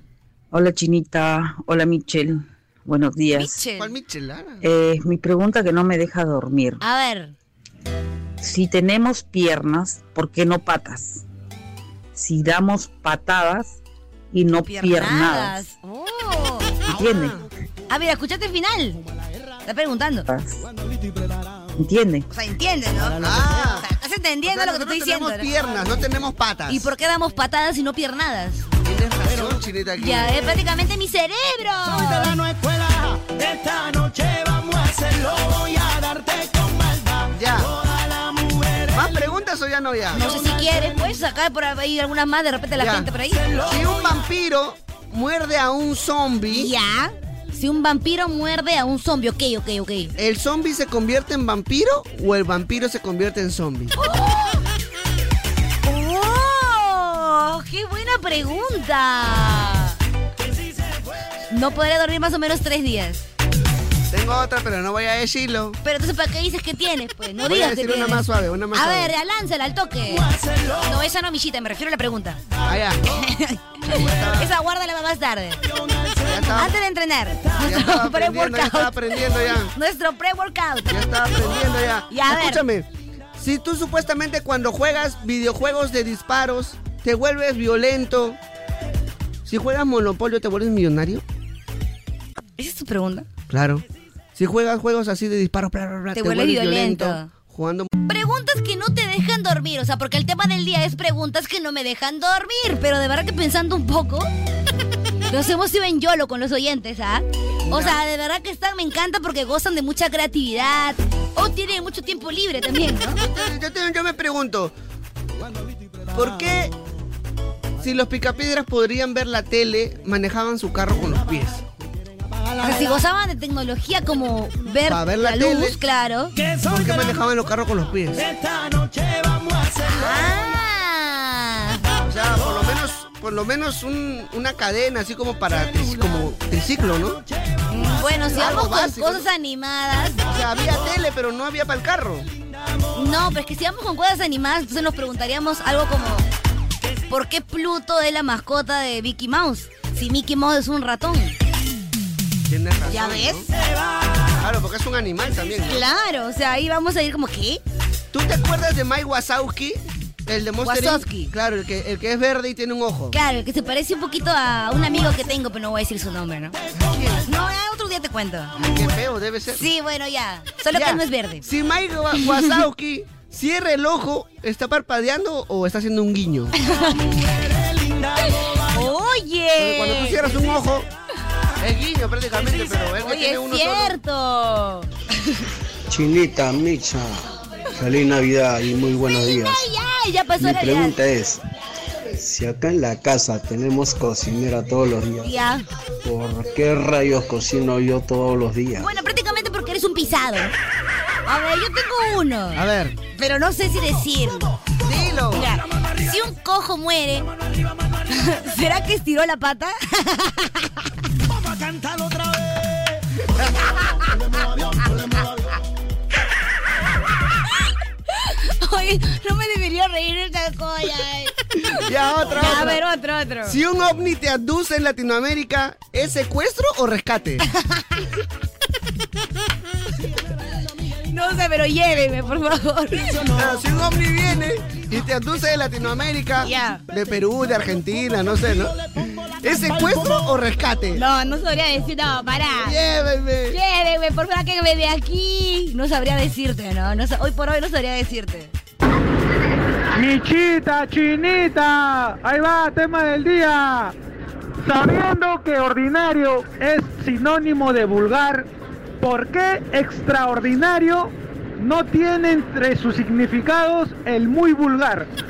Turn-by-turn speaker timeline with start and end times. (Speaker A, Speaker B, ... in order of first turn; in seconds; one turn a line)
Speaker A: 0.5-3.5
Speaker B: 3.3-3.9
Speaker C: 3.8-4.6
Speaker A: 4.6-6.8
Speaker B: 6.8-7.3
Speaker A: 8.4-11.2
Speaker A: 12.1-13.8
Speaker A: 14.3-15.6
Speaker B: 14.6-16.8
Speaker C: 16.9-17.5
Speaker A: 16.9-17.4
Speaker B: 17.9-19.0
Speaker B: 19.6-20.2
Speaker A: 20.3-20.6
Speaker A: 21.8-22.2
Speaker B: 22.3-25.5
Speaker C: 23.2-23.9
Speaker C: 24.4-26.9
Speaker B: 26.7-28.6
Speaker C: 28.8-30.4
Speaker B: 30.0-32.4
Speaker C: 37.3-37.7
Speaker C: 38.9-40.2
Speaker B: 40.1-43.4
Speaker C: 42.8-46.7
Speaker B: 46.5-50.1
Speaker C: 50.2-53.9
Speaker B: 54.0-54.6
Speaker B: 55.8-60.0
Speaker B: 61.5-63.2
Speaker C: 64.1-65.8
Speaker B: 65.8-72.4
Speaker C: 67.4-69.1
Speaker C: 72.6-73.0
Speaker B: 73.1-75.6
Speaker C: 73.9-74.5
Speaker C: 76.2-76.8
Speaker B: 76.5-81.0
Speaker C: 77.6-79.7
Speaker C: 80.9-88.4
Speaker B: 82.1-82.6
Speaker C: 89.5-91.2
Speaker B: 92.6-93.3
Speaker C: 93.5-93.8
Speaker C: 94.3-97.9
Speaker B: 96.1-97.3
Speaker B: 98.1-104.3
Speaker B: 105.3-113.2
Speaker C: 107.7-108.0
Speaker C: 113.2-114.7
Speaker C: 116.1-116.7
Speaker C: 117.8-121.6
Speaker B: 122.6-126.3
Speaker C: 124.8-125.8
Speaker C: 126.6-128.2
Speaker B: 129.8-131.8
Speaker C: 132.0-137.2
Speaker B: 137.7-140.2
Speaker C: 138.3-139.2
Speaker C: 140.2-142.3
Speaker B: 142.9-146.3
Speaker B: 147.1-151.4
Speaker C: 152.5-153.5
Speaker B: 152.9-153.5
Speaker C: 154.3-155.8
Speaker B: 155.7-157.6
Speaker C: 158.1-163.2
Speaker B: 160.6-161.3
Speaker B: 163.1-166.5
Speaker C: 166.7-167.3
Speaker B: 167.2-168.5
Speaker C: 168.6-169.7
Speaker B: 169.5-171.4
Speaker C: 170.7-176.5
Speaker B: 172.2-172.5
Speaker B: 176.6-177.2
Speaker B: 178.7-180.3
Speaker C: 179.6-180.9
Speaker C: 181.6-184.0
Speaker B: 182.9-184.9
Speaker D: 185.9-187.1
Speaker D: 187.8-189.7
Speaker B: 189.2-190.9
Speaker D: 190.4-191.4
Speaker D: 192.2-195.3
Speaker B: 195.2-195.7
Speaker D: 196.0-198.9
Speaker B: 198.8-200.5
Speaker B: 201.2-202.6
Speaker C: 202.5-203.0
Speaker B: 203.1-204.5
Speaker C: 204.8-205.5
Speaker B: 205.3-207.3
Speaker B: 208.1-210.7
Speaker B: 218.2-221.3
Speaker C: 221.8-222.8
Speaker B: 222.3-223.6
Speaker C: 223.4-227.4
Speaker B: 231.1-233.3
Speaker C: 233.3-241.0
Speaker B: 236.4-236.8
Speaker B: 240.9-242.8
Speaker C: 242.6-243.6
Speaker B: 243.5-248.5
Speaker E: 249.9-253.9
Speaker E: 254.6-258.5
Speaker E: 259.0-265.1